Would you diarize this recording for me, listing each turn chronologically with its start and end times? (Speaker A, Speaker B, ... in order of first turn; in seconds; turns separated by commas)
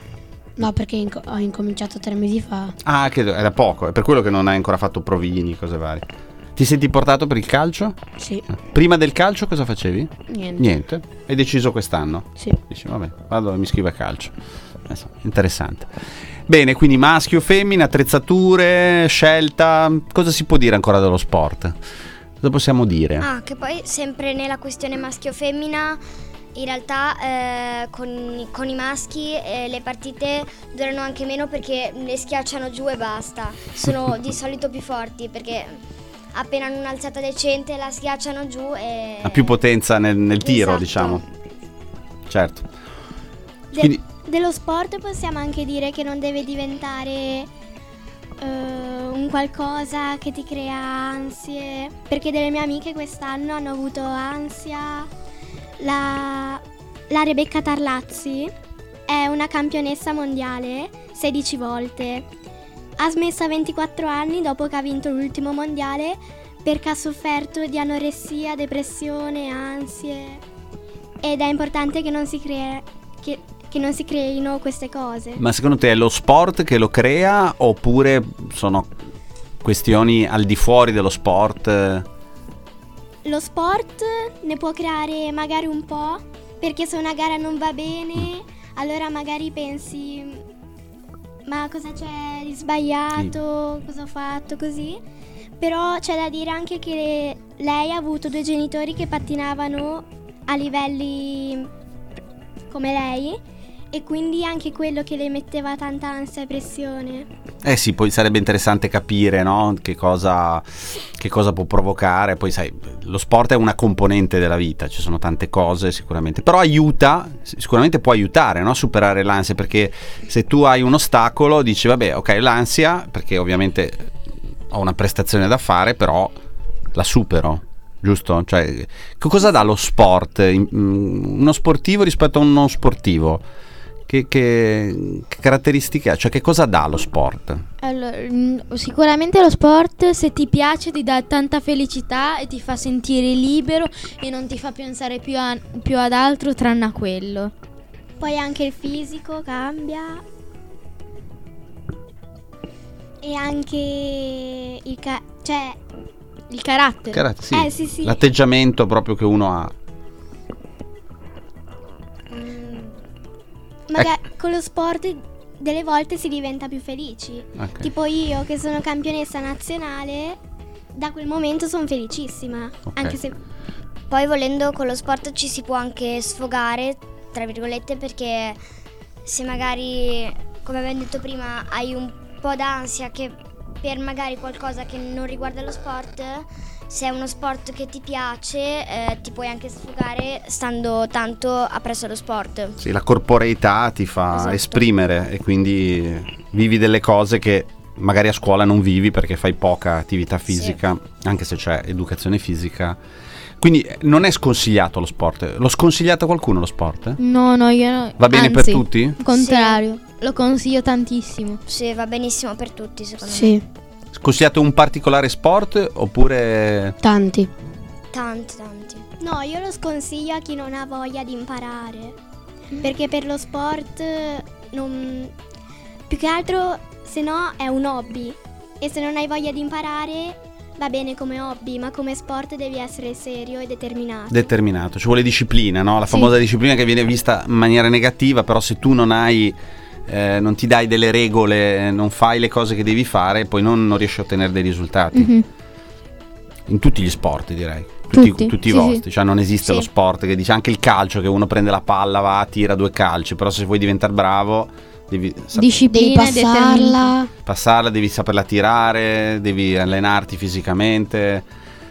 Speaker A: 0.6-2.8, Speaker B: 2.8-8.0, Speaker A: 8.2-8.5, Speaker B: 8.6-14.3, Speaker A: 10.3-10.6, Speaker B: 14.9-15.9, Speaker B: 16.5-21.8, Speaker B: 22.4-23.3, Speaker C: 23.2-26.0, Speaker C: 26.6-35.8, Speaker C: 36.3-39.5, Speaker B: 39.2-41.2, Speaker C: 40.4-41.2, Speaker B: 42.3-42.7, Speaker D: 43.7-47.5, Speaker B: 43.7-44.0, Speaker D: 48.4-55.1, Speaker D: 55.8-58.5, Speaker D: 59.1-62.3, Speaker D: 63.0-70.4, Speaker D: 71.2-75.4, Speaker B: 75.4-78.9, Speaker B: 79.6-82.1, Speaker D: 83.2-90.4, Speaker D: 91.5-95.0, Speaker D: 95.6-101.7, Speaker D: 102.7-103.4, Speaker D: 103.9-107.3, Speaker B: 107.6-124.1, Speaker B: 124.7-126.4, Speaker B: 126.9-133.4, Speaker B: 134.1-137.6, Speaker E: 137.8-147.5, Speaker D: 148.2-150.2, Speaker D: 153.2-155.8, Speaker E: 156.5-157.2, Speaker B: 157.1-159.7, Speaker D: 157.5-158.2, Speaker C: 162.3-162.9, Speaker D: 163.9-170.4, Speaker B: 167.6-167.9, Speaker D: 170.9-173.4, Speaker B: 172.9-173.2, Speaker C: 174.1-178.6, Speaker C: 179.2-192.8, Speaker B: 192.8-203.0, Speaker C: 194.3-194.8, Speaker B: 203.6-207.2, Speaker E: 207.2-211.6, Speaker B: 208.2-209.2, Speaker C: 209.3-209.8, Speaker C: 211.7-213.6, Speaker A: 213.3-213.6, Speaker B: 214.1-217.0, Speaker A: 217.0-217.5, Speaker C: 218.1-219.0, Speaker D: 219.2-222.2, Speaker D: 222.8-225.3, Speaker D: 226.1-234.5, Speaker B: 234.3-245.3, Speaker E: 245.1-245.4, Speaker B: 246.7-255.7, Speaker E: 248.1-249.0, Speaker E: 255.5-257.1, Speaker A: 255.9-257.3, Speaker B: 257.4-261.5